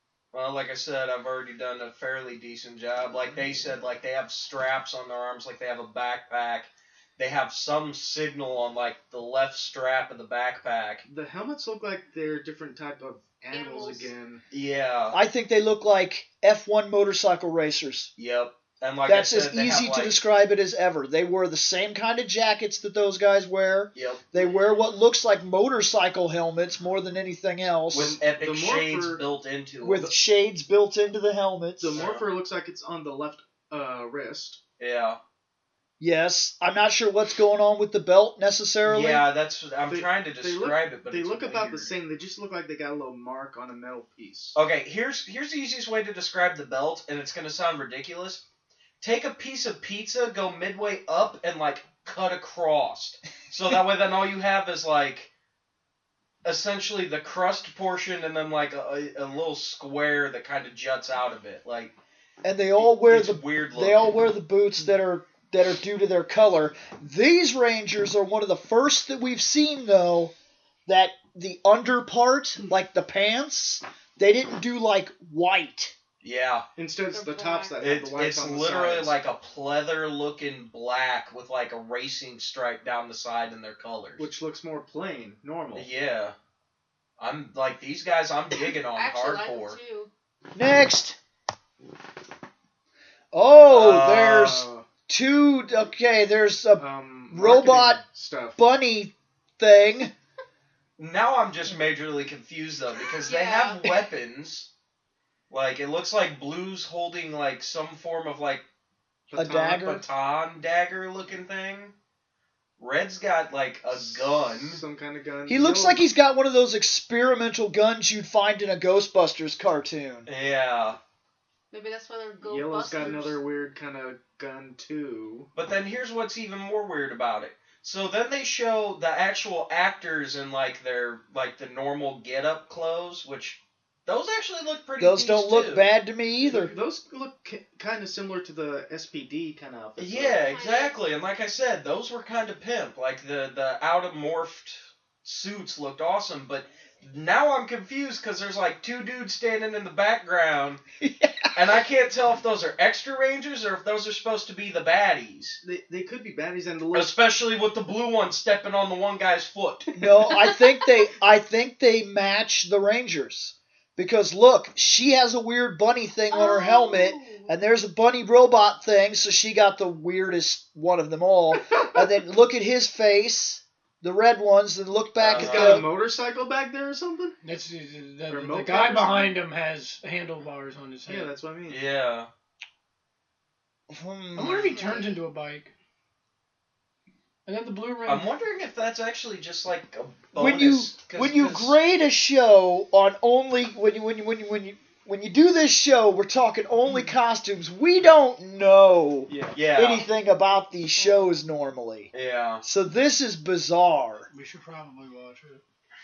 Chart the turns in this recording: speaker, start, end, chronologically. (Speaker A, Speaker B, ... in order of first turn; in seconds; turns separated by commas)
Speaker A: 0.3-11.0, Speaker B: 3.0-3.6, Speaker B: 11.1-14.4, Speaker C: 13.5-14.1, Speaker A: 14.5-15.2, Speaker D: 15.1-18.1, Speaker A: 18.2-20.2, Speaker D: 19.1-28.1, Speaker A: 23.9-24.2, Speaker A: 27.9-30.1, Speaker B: 27.9-29.2, Speaker D: 29.8-32.0, Speaker B: 31.8-34.6, Speaker A: 31.9-32.2, Speaker A: 34.8-35.2, Speaker D: 36.0-39.2, Speaker A: 38.8-41.9, Speaker B: 39.9-44.6, Speaker A: 44.5-48.4, Speaker A: 49.0-55.3, Speaker A: 56.4-61.9, Speaker D: 62.4-70.3, Speaker A: 62.9-64.1, Speaker D: 70.9-75.9, Speaker A: 76.2-76.7, Speaker B: 76.8-79.1, Speaker C: 77.1-78.0, Speaker A: 77.8-84.2, Speaker B: 84.2-85.9, Speaker A: 85.7-86.3, Speaker A: 87.2-89.8, Speaker C: 88.9-90.1, Speaker D: 90.5-91.2, Speaker D: 93.3-98.0, Speaker A: 93.7-94.5, Speaker B: 94.3-94.9, Speaker B: 96.8-98.6, Speaker D: 98.6-100.1, Speaker A: 101.0-104.7, Speaker C: 103.2-103.8, Speaker A: 105.5-108.6, Speaker B: 109.3-109.8, Speaker D: 109.3-110.0, Speaker A: 109.7-111.9, Speaker A: 112.8-114.8, Speaker B: 113.9-116.0, Speaker D: 115.5-120.3, Speaker A: 120.3-121.0, Speaker C: 121.7-123.4, Speaker B: 122.4-125.5, Speaker A: 125.5-135.9, Speaker D: 135.0-136.7, Speaker B: 136.4-140.4, Speaker A: 140.0-150.8, Speaker C: 140.4-140.9, Speaker D: 151.0-151.5, Speaker A: 151.5-155.6, Speaker B: 155.6-157.1, Speaker A: 156.9-159.9, Speaker D: 159.9-175.9, Speaker B: 160.0-160.3, Speaker C: 166.3-167.5, Speaker B: 171.5-172.0, Speaker A: 175.2-175.9, Speaker B: 175.3-177.4, Speaker E: 177.4-181.3, Speaker B: 178.3-179.3, Speaker B: 181.1-181.8, Speaker A: 181.7-182.3, Speaker D: 183.9-184.9, Speaker E: 184.3-185.7, Speaker C: 184.7-185.2, Speaker E: 187.4-188.3, Speaker A: 188.1-191.8, Speaker D: 190.3-202.1, Speaker B: 199.3-199.6, Speaker A: 199.5-200.1, Speaker C: 200.9-201.3, Speaker A: 202.1-202.6, Speaker D: 202.6-204.3, Speaker E: 204.3-205.6